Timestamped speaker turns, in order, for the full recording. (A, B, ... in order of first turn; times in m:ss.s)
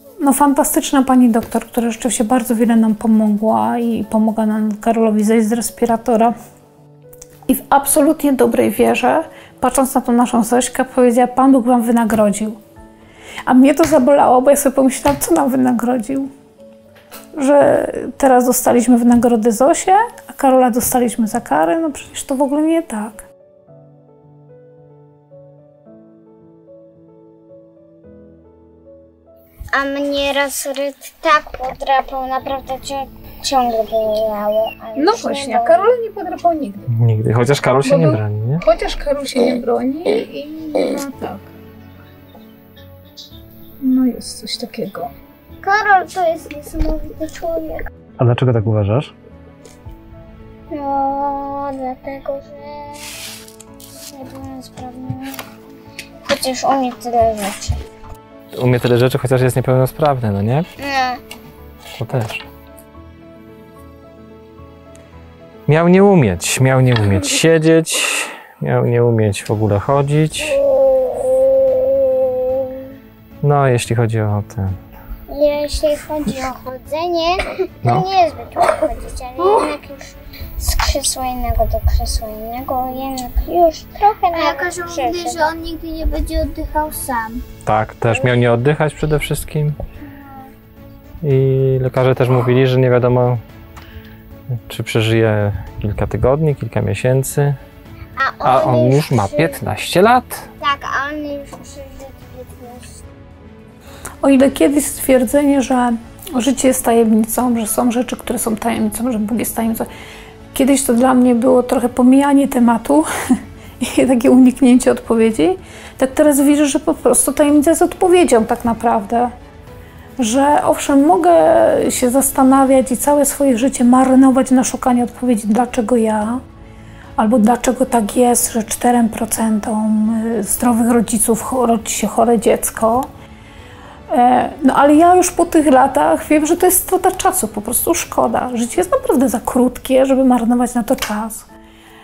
0:00.2-0:06.3 A
0:07.5-0:12.6 A
0:13.4-0:16.3 A
0:17.4-0:23.2 A
0:29.7-0:35.9 B
0:35.0-0:36.9 A
0:36.9-0:38.6 C
0:37.8-0:41.5 A
0:43.8-0:45.1 A
0:45.6-0:47.8 B
0:48.2-0:49.1 C
0:50.7-0:53.2 B
0:54.1-0:55.4 B
0:56.2-0:57.8 B
0:58.5-1:00.7 C
1:00.8-1:01.2 B
1:01.9-1:02.4 C
1:05.7-1:10.6 C
1:10.6-1:12.9 B
1:13.4-1:14.8 C
1:15.3-1:25.5 B
1:19.4-1:19.7 D
1:24.3-1:27.4 D
1:27.6-1:29.8 C
1:30.1-1:30.5 B
1:31.2-1:33.4 C
1:34.7-1:37.6 C
1:38.2-1:39.6 B
1:38.4-1:40.5 C
1:40.6-1:43.0 B
1:44.2-1:49.9 A
1:50.5-1:53.1 A
1:53.8-1:59.3 A
2:00.2-2:06.4 A
2:07.2-2:13.1 A
2:14.1-2:21.5 A